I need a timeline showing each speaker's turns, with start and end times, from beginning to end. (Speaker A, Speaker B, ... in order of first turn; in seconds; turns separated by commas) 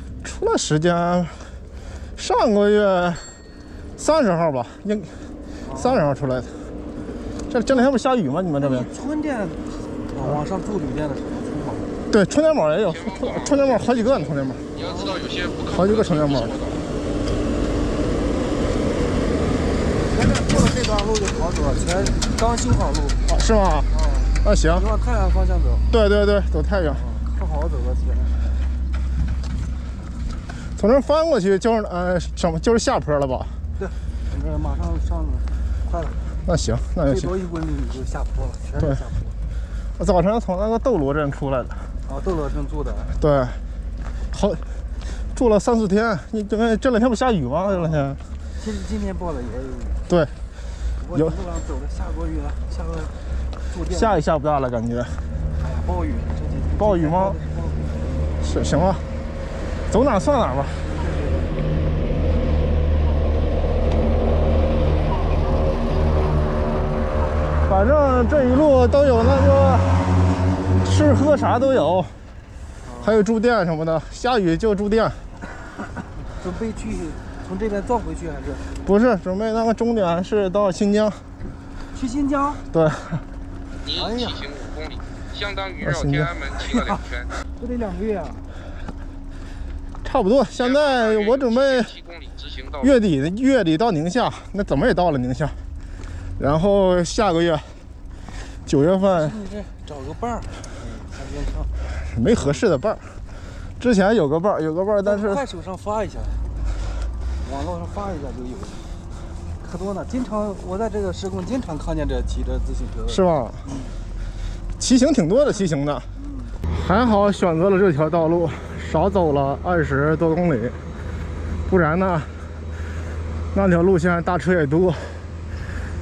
Speaker A: 0.2-1.5, Speaker A: 2.2-3.2, Speaker A: 4.0-5.2, Speaker B: 5.6-6.0, Speaker A: 5.8-6.5, Speaker A: 7.5-8.9, Speaker B: 8.6-11.9, Speaker A: 12.1-14.7, Speaker C: 12.8-13.7, Speaker B: 14.7-15.2, Speaker C: 14.7-16.8, Speaker A: 15.7-16.6, Speaker B: 20.0-23.2, Speaker A: 23.3-23.9, Speaker B: 23.9-25.9, Speaker A: 24.4-24.8, Speaker A: 25.9-27.0, Speaker B: 26.9-28.5, Speaker A: 30.8-33.5, Speaker B: 33.8-36.2, Speaker A: 36.5-37.3, Speaker B: 37.0-39.4, Speaker A: 40.0-41.9, Speaker B: 42.0-43.2, Speaker A: 43.2-43.6, Speaker A: 44.3-44.6, Speaker A: 45.3-48.2, Speaker B: 47.7-50.0, Speaker A: 50.1-50.3, Speaker B: 51.0-53.1, Speaker B: 53.7-54.2, Speaker A: 53.9-55.2, Speaker B: 55.6-58.3, Speaker A: 56.8-57.4, Speaker A: 58.4-59.0, Speaker A: 59.9-60.9, Speaker B: 60.9-61.6, Speaker A: 67.6-70.0, Speaker A: 70.8-72.1, Speaker B: 72.8-73.2, Speaker A: 73.0-75.2, Speaker B: 76.3-78.6, Speaker A: 78.8-81.2, Speaker B: 81.9-82.6, Speaker A: 82.7-83.2, Speaker C: 83.8-87.3, Speaker B: 83.9-84.5, Speaker A: 85.8-86.3, Speaker B: 86.6-87.0, Speaker B: 87.6-88.6, Speaker A: 90.0-91.9, Speaker C: 90.6-93.0, Speaker A: 92.8-95.6, Speaker A: 96.4-97.8, Speaker A: 98.7-99.3, Speaker B: 99.1-101.7, Speaker A: 102.1-103.1, Speaker A: 103.8-105.4, Speaker B: 105.0-106.4, Speaker B: 107.4-108.9, Speaker B: 109.6-114.0, Speaker A: 113.1-113.6, Speaker A: 114.8-116.1, Speaker B: 116.2-116.6, Speaker A: 116.7-120.8, Speaker A: 121.7-122.3, Speaker A: 123.5-125.2